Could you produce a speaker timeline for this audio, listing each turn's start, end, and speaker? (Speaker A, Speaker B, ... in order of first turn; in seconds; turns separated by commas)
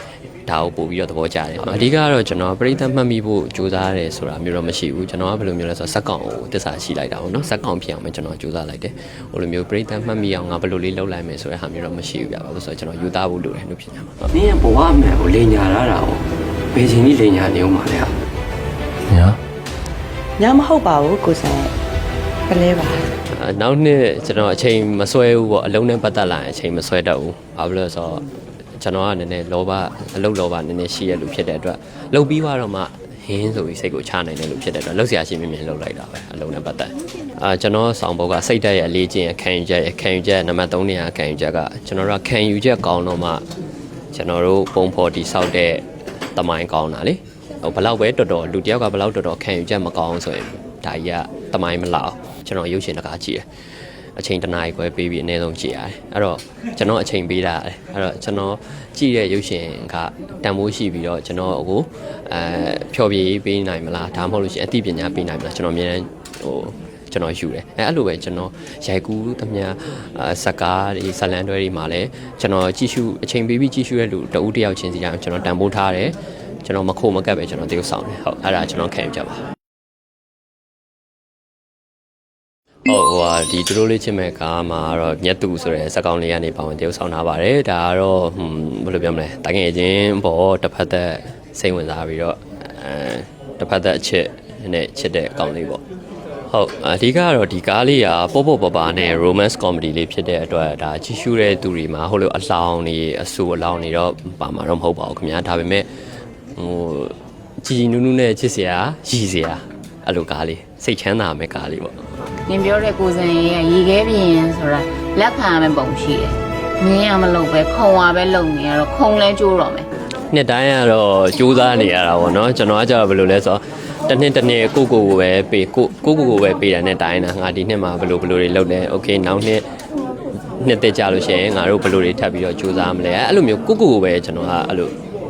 Speaker A: 0.5-14.3, Speaker B: 14.3-18.1, Speaker A: 19.1-19.4, Speaker C: 20.4-21.7, Speaker C: 22.5-23.1, Speaker A: 23.3-28.2, Speaker A: 28.8-43.4, Speaker A: 44.1-53.5, Speaker A: 54.1-79.5, Speaker A: 82.8-95.8, Speaker A: 96.5-105.9, Speaker A: 106.5-112.0, Speaker D: 112.5-119.9, Speaker A: 120.3-129.7, Speaker A: 130.5-134.9